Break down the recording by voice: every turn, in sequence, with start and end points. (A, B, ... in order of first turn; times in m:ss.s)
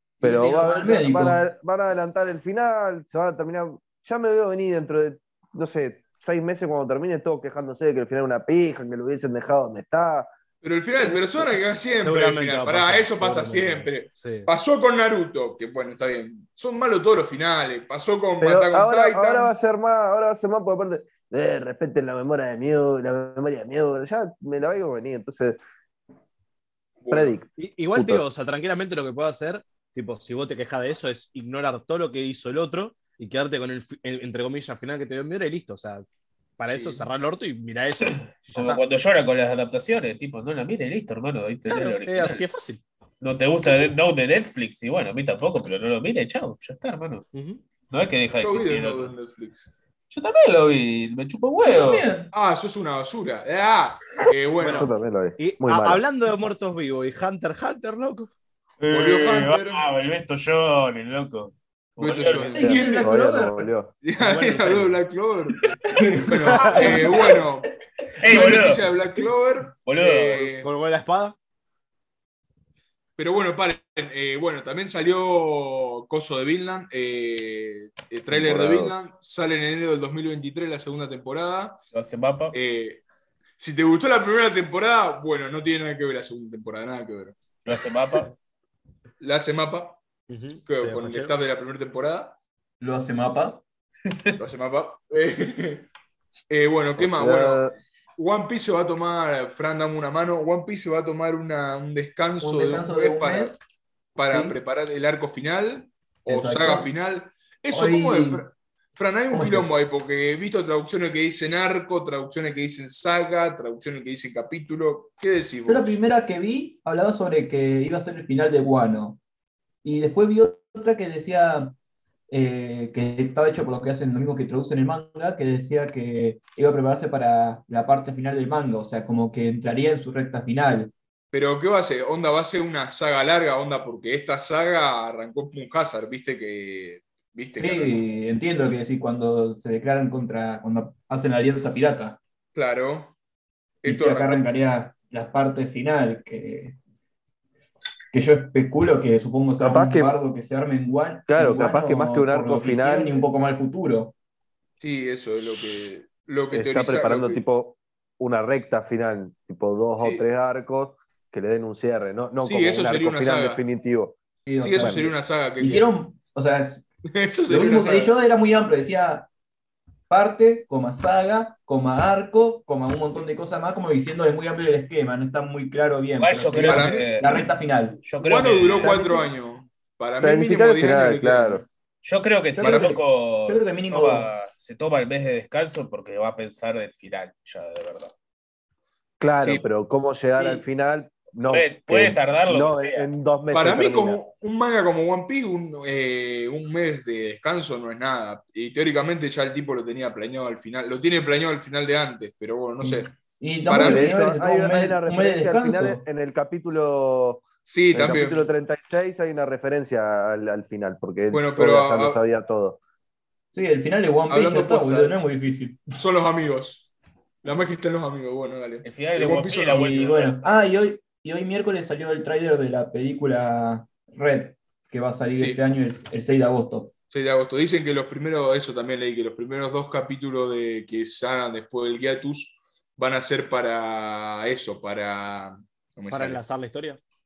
0:00.2-0:01.4 A
0:00.2-0:10.3 B
0:10.6-0:19.5 C
0:11.0-0:11.6 B
0:12.0-0:14.5 D
0:18.4-0:25.6 B
0:27.0-0:27.4 C
0:27.1-0:28.3 B
0:27.6-0:36.0 D
0:36.6-0:38.8 D
0:36.7-0:37.1 C
0:38.0-0:42.4 E
0:41.7-0:42.8 D
0:43.2-0:47.3 E
0:47.3-0:47.6 D
0:47.9-0:49.1 E
0:48.4-0:49.7 C
0:50.1-0:52.1 E
0:51.6-0:52.3 A
0:52.3-0:54.9 C
0:54.6-0:58.3 D
0:54.7-0:56.0 B
0:58.8-1:02.6 E
0:58.9-0:59.8 C
1:02.0-1:03.1 C
1:02.4-1:03.7 A
1:02.6-1:03.9 B
1:04.0-1:07.7 C
1:04.2-1:05.0 D
1:05.9-1:07.5 A
1:08.2-1:08.9 E
1:08.2-1:10.7 C
1:09.8-1:10.4 E
1:10.4-1:11.4 D
1:13.2-1:21.8 C
1:18.3-1:19.0 B
1:21.9-1:22.6 E
1:22.5-1:23.0 C
1:23.6-1:27.4 C
1:27.7-1:28.3 E
1:29.2-1:30.0 C
1:30.3-1:31.3 D
1:30.7-1:32.4 C
1:32.8-1:33.6 A
1:34.1-1:34.4 E
1:34.4-1:35.9 C
1:36.5-1:37.6 C
1:37.0-1:37.8 B
1:38.2-1:43.6 C
1:42.4-1:43.6 A
1:44.2-1:56.0 C
1:44.3-1:44.6 A
1:46.3-1:46.9 A
1:47.7-1:48.5 A
1:49.3-1:49.7 A
1:55.7-1:59.2 A
1:59.8-2:01.8 A
2:02.3-2:10.9 A
2:11.3-2:18.0 C
2:17.5-2:22.2 A
2:22.6-2:23.2 C
2:23.8-2:24.4 C
2:23.9-2:26.8 A
2:28.1-2:34.1 A
2:29.6-2:30.1 B
2:31.3-2:33.3 B
2:34.8-2:37.4 C
2:36.5-2:44.2 B
2:40.0-2:40.2 C
2:42.4-2:43.6 C
2:44.5-2:46.9 A
2:44.6-2:45.9 C
2:47.1-2:48.1 C
2:47.5-2:49.3 A
2:50.1-2:58.0 A
2:56.2-2:57.5 E
2:56.5-2:57.5 C
2:58.0-2:59.0 E
2:58.2-3:01.7 C
2:58.7-2:59.3 B
3:00.2-3:01.6 B
3:02.0-3:08.1 E
3:02.6-3:04.3 A
3:02.6-3:03.0 C
3:09.2-3:14.2 B
3:11.5-3:13.1 E
3:13.5-3:23.1 C
3:22.8-3:26.0 A
3:23.7-3:24.2 C
3:23.7-3:32.8 B
3:27.6-3:28.5 C
3:31.3-3:32.2 C
3:33.5-3:35.8 A
3:34.3-3:35.2 C
3:36.0-3:36.9 C
3:37.4-3:40.1 C
3:38.8-3:40.5 E
3:39.9-3:46.9 A
3:47.1-3:56.4 C
3:56.1-3:57.0 D